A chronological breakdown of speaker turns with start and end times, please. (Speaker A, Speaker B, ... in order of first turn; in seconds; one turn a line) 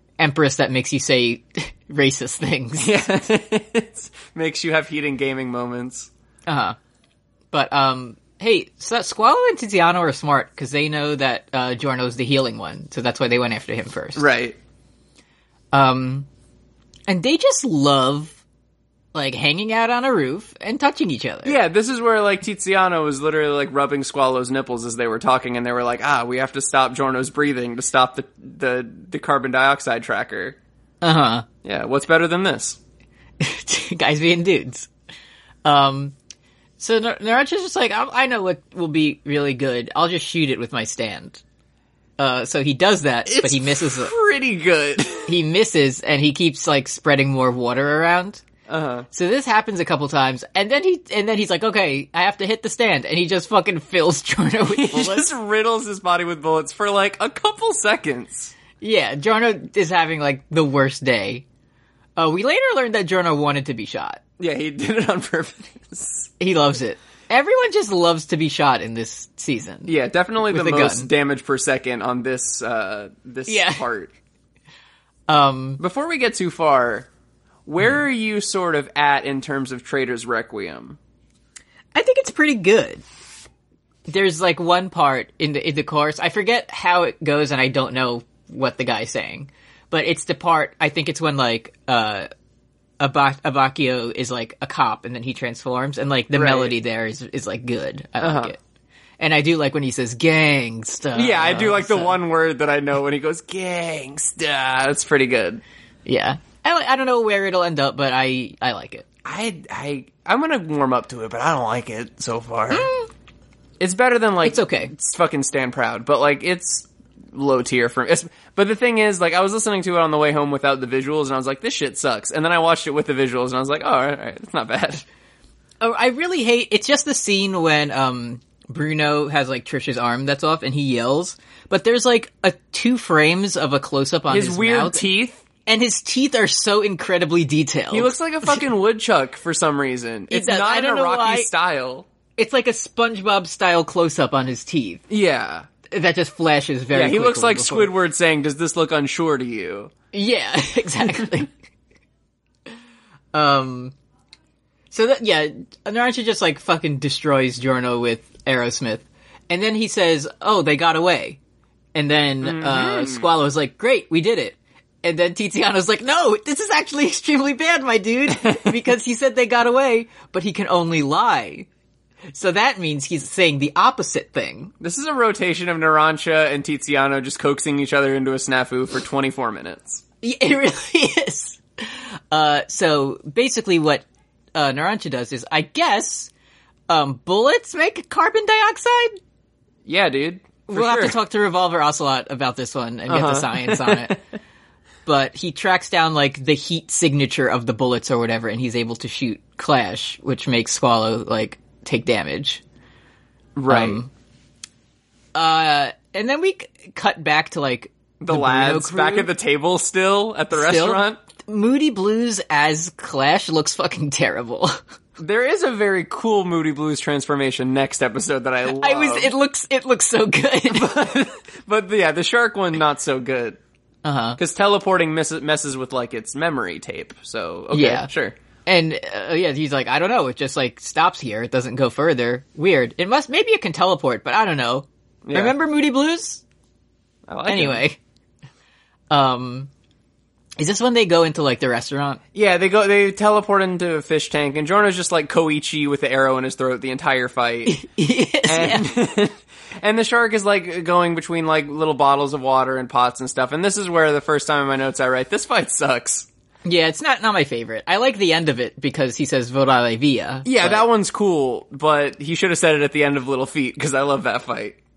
Speaker A: 0.2-2.9
Speaker B: 2.8-6.1
Speaker A: 6.5-6.8
Speaker A: 7.5-14.2
Speaker B: 14.2-14.6
Speaker A: 15.7-16.3
Speaker A: 17.1-18.4
Speaker A: 19.1-21.6
Speaker B: 21.4-30.6
Speaker A: 31.0-31.5
Speaker B: 31.6-32.8
Speaker A: 33.4-34.9
Speaker A: 35.6-36.1
Speaker A: 36.8-41.4
Speaker A: 42.2-44.1
Speaker B: 43.3-45.3
Speaker A: 45.3-48.4
Speaker B: 48.7-49.1
Speaker A: 49.1-55.3
Speaker B: 54.7-58.5
Speaker A: 58.8-61.4
Speaker A: 62.2-64.2
Speaker B: 64.4-66.3
Speaker A: 66.4-69.9
Speaker B: 69.9-74.1
Speaker A: 70.4-71.1
Speaker A: 73.5-73.8
Speaker A: 75.3-75.8
Speaker B: 75.8-77.1
Speaker B: 77.7-81.0
Speaker A: 82.0-83.0
Speaker A: 84.1-92.3
Speaker A: 93.0-98.6
Speaker B: 96.3-96.8
Speaker B: 98.2-98.5
Speaker A: 99.2-102.2
Speaker B: 101.2-105.6
Speaker A: 106.1-109.0
Speaker B: 109.2-112.9
Speaker A: 112.7-113.1
Speaker B: 113.8-125.0
Speaker A: 114.4-114.9
Speaker A: 125.8-135.0
Speaker B: 134.3-135.4
Speaker A: 135.7-138.6
Speaker B: 137.9-142.1
Speaker A: 140.3-141.5
Speaker A: 142.4-145.0
Speaker B: 145.1-145.7
Speaker A: 145.9-147.9
Speaker B: 146.9-149.9
Speaker A: 150.1-151.5
Speaker A: 153.3-153.9
Speaker A: 154.9-161.4
Speaker A: 161.9-171.7
Speaker B: 162.4-163.3
Speaker A: 172.3-174.7
Speaker B: 174.8-180.0
Speaker A: 180.2-184.0
Speaker A: 184.6-186.3
Speaker A: 186.9-189.2
Speaker B: 189.8-191.2
Speaker A: 190.7-194.2
Speaker B: 193.1-194.2
Speaker A: 195.1-202.6
Speaker B: 203.6-204.0
Speaker A: 203.7-204.1
Speaker A: 205.3-209.3
Speaker B: 208.2-211.2
Speaker A: 210.5-214.8
Speaker B: 215.2-219.3
Speaker A: 218.7-221.0
Speaker B: 220.7-223.6
Speaker A: 224.0-224.4
Speaker B: 224.4-228.3
Speaker A: 227.7-228.1
Speaker A: 228.7-236.4
Speaker B: 235.2-235.6
Speaker B: 237.3-237.8
Speaker A: 237.5-238.0
Speaker A: 239.1-239.7
Speaker A: 240.6-242.2
Speaker B: 242.3-247.8
Speaker A: 247.7-248.8
Speaker B: 248.5-256.3
Speaker A: 256.6-260.9
Speaker B: 260.4-264.8